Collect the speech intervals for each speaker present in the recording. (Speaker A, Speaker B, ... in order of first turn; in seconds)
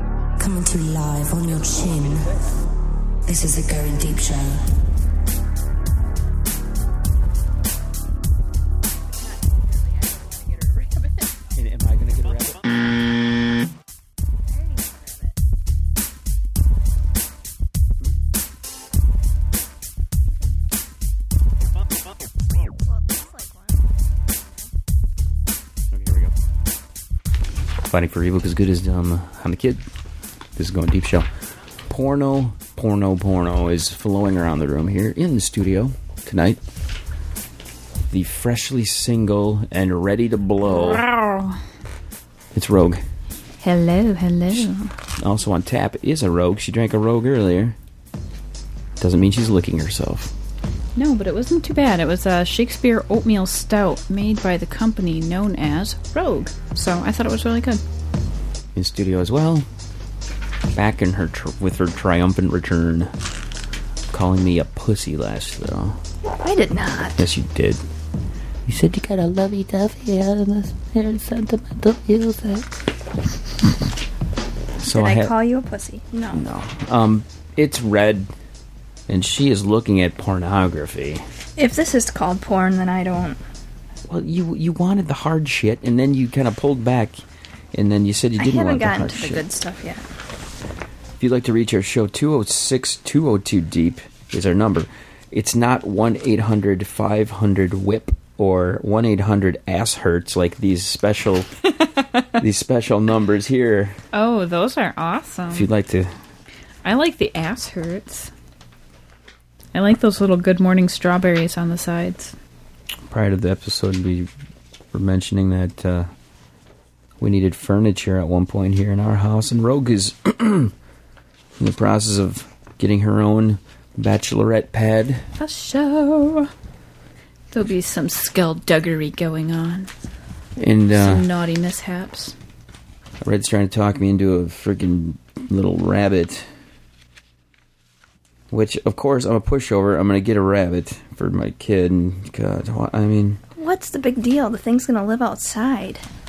Speaker A: 0.4-2.3, 3.3-4.7
Speaker B: 9.2-11.2, 14.5-15.3, 22.9-23.8, 66.4-67.2, 74.9-76.4, 81.6-83.4, 88.4-90.0, 143.6-146.0
Speaker C: 11.5-12.8, 25.9-26.3, 27.9-29.8, 30.6-31.3, 31.9-36.6, 38.1-41.0, 42.5-43.0, 44.5-47.8, 49.0-50.3, 58.7-59.7, 60.7-63.1, 64.1-66.0, 67.2-67.8, 68.7-72.7, 74.8-75.3, 76.3-78.3, 79.1-81.2, 84.1-87.2, 87.7-89.4, 91.2-101.5, 102.4-104.0, 105.5-106.1, 113.1-114.3, 114.9-116.1, 117.2-120.7, 121.6-125.2, 130.6-131.3, 133.2-136.4, 138.5-143.4
Speaker D: 40.6-41.6, 43.6-44.9, 51.0-57.8, 101.8-102.4, 104.1-105.7, 106.8-108.3, 109.7-112.3, 125.4-126.5, 127.5-129.9, 130.9-132.3